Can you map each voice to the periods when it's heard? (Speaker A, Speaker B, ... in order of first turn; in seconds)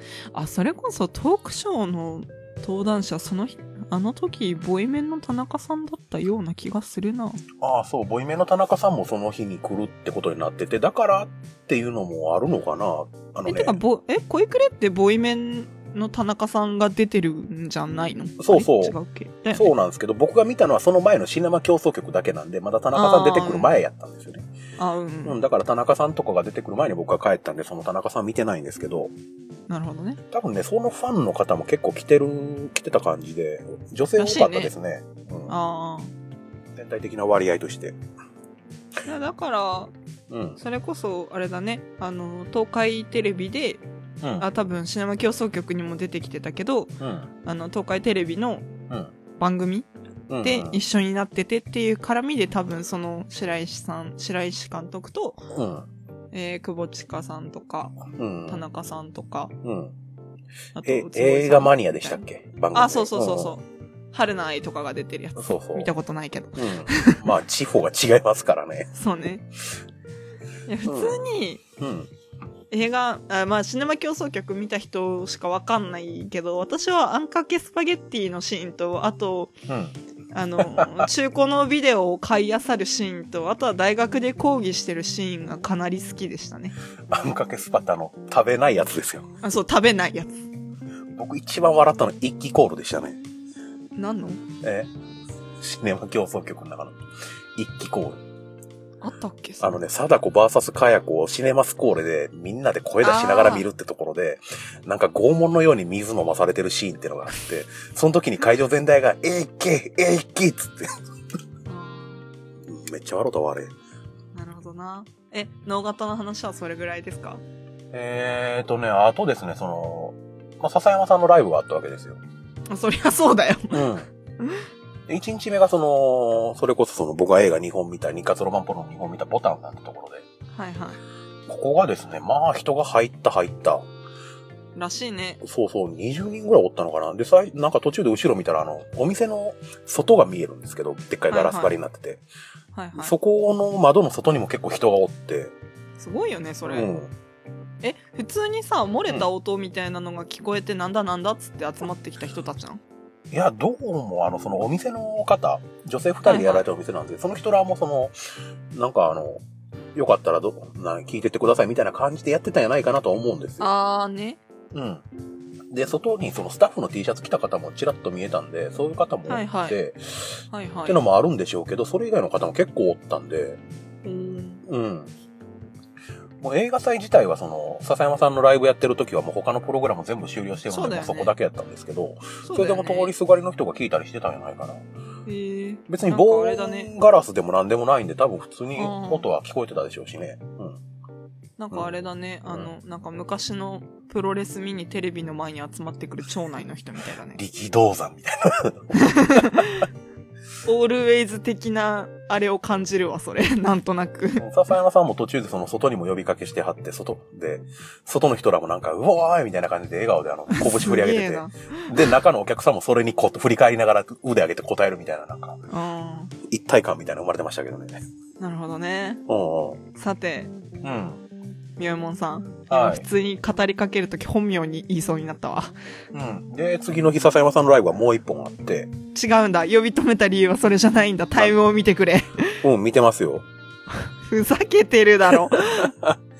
Speaker A: 0.3-7.4, 13.4-19.7, 22.9-23.7, 24.8-25.4, 29.7-30.2, 34.2-34.7, 35.5-36.1, 39.0-39.9, 40.6-43.8, 44.4-48.7, 49.4-49.9, 50.4-55.4, 56.3-59.5, 60.7-67.2, 68.9-69.4, 70.7-71.6, 72.7-79.5, 80.3-86.7, 89.4-90.4, 94.0-94.4, 99.0-99.7, 103.0-103.7, 111.7-112.2, 114.3-117.4, 122.7-124.6, 130.5-131.0, 134.7-135.4, 141.3-141.8, 142.7-143.1, 146.0-146.9, 147.8-152.8, 156.2-156.6, 163.6-164.4, 169.3-169.8, 170.5-171.0, 174.0-174.6, 180.7-181.3, 182.4-183.1, 185.2-186.9, 188.8-189.3, 191.6-197.4, 199.0-199.8, 200.6-204.4, 210.5-212.1, 215.7-216.3, 218.4-219.2, 219.9-220.5, 221.8-225.7, 229.1-232.6, 233.9-235.9
Speaker B: 7.6-13.8, 18.4-18.9, 19.5-24.4, 25.2-29.1, 30.3-35.5, 36.8-38.0, 40.3-40.6, 44.2-44.5, 47.0-47.3, 50.3-50.8, 55.5-55.9, 58.1-58.6, 59.6-59.9, 60.8-63.5, 65.3-65.9, 66.6-68.9, 70.8-71.2, 71.8-72.1, 79.7-80.0, 80.6-81.0, 87.1-89.3, 91.1-93.2, 94.6-94.9, 95.6-97.0, 97.5-98.2, 99.6-111.0, 112.7-113.7, 117.9-122.2, 123.7-124.1, 125.1-130.2, 131.5-133.9, 135.4-142.2, 142.9-145.5, 146.7-147.1, 153.3-158.1, 158.7-159.4, 159.9-163.7, 164.7-165.0, 165.7-173.6, 174.6-175.1, 176.4-184.8, 185.9-190.8, 197.3-199.7, 204.4-215.6, 216.5-218.0, 219.3-219.8, 220.8-221.2, 222.7-223.0, 226.1-228.9, 232.6-233.4, 235.5-236.2